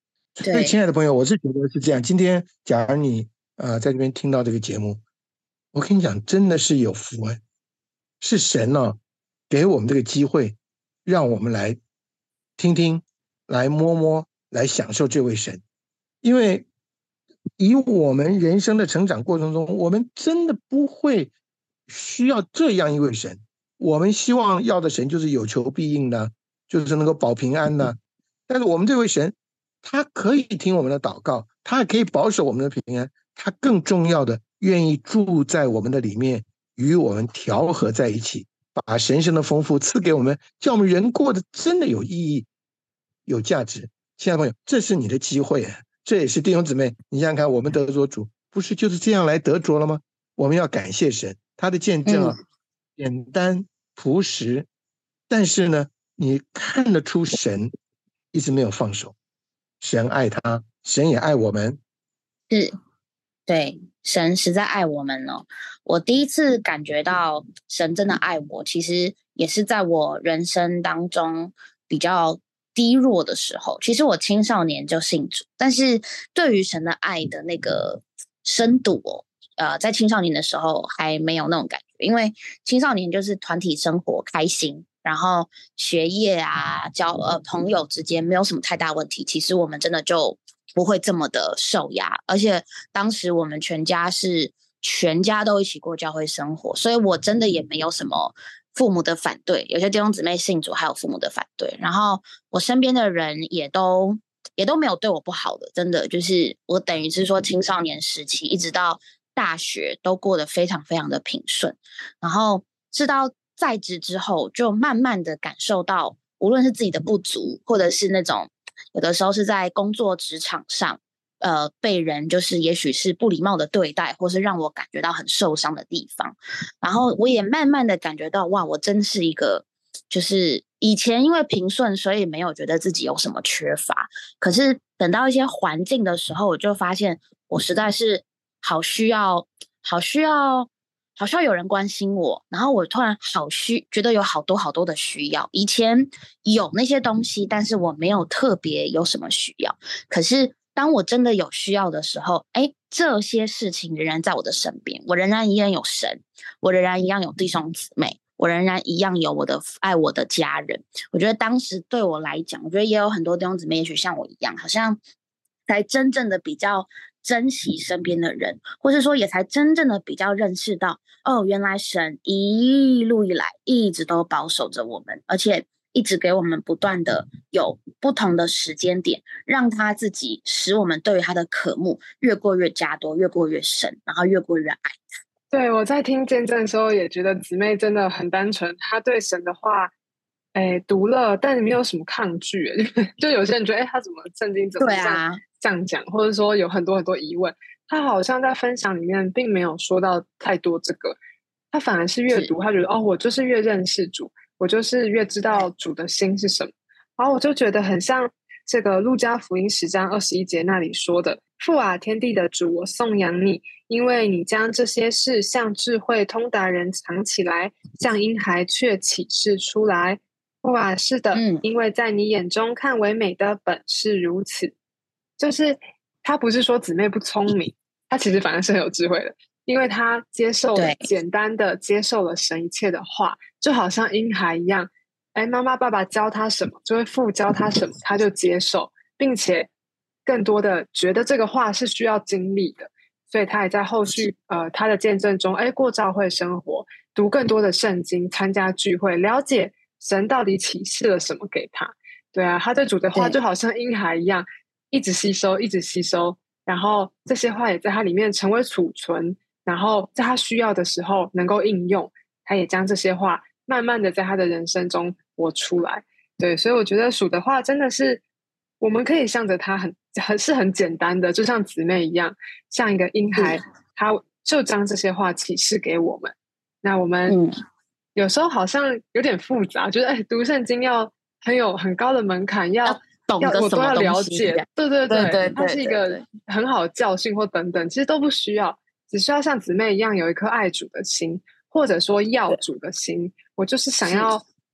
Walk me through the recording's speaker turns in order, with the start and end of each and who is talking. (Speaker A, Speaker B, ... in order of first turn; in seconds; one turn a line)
Speaker A: 0.3-5.0
Speaker B: 0.4-0.8
Speaker A: 5.7-7.4
Speaker A: 8.2-9.0
Speaker A: 9.5-11.8
Speaker A: 12.6-15.6
Speaker A: 16.2-16.7
Speaker A: 17.6-21.3
Speaker A: 21.9-28.0
Speaker A: 28.5-42.5
Speaker A: 43.3-52.4
Speaker B: 52.0-52.4
Speaker A: 53.0-54.7
Speaker A: 55.3-57.7
Speaker A: 58.3-59.1
Speaker A: 59.8-61.8
Speaker B: 63.5-165.0
Speaker B: 165.7-184.9
Speaker C: 185.5-189.9
Speaker C: 190.5-201.2
Speaker B: 194.8-195.4
Speaker C: 201.7-224.7
Speaker B: 221.3-221.6
Speaker C: 225.4-239.7
Speaker B: 230.7-231.1
Speaker C: 240.2-268.2
Speaker B: 253.1-253.4
Speaker C: 268.8-277.4
Speaker B: 277.2-277.5
Speaker C: 278.1-294.4
Speaker B: 282.9-286.2
Speaker B: 294.0-294.3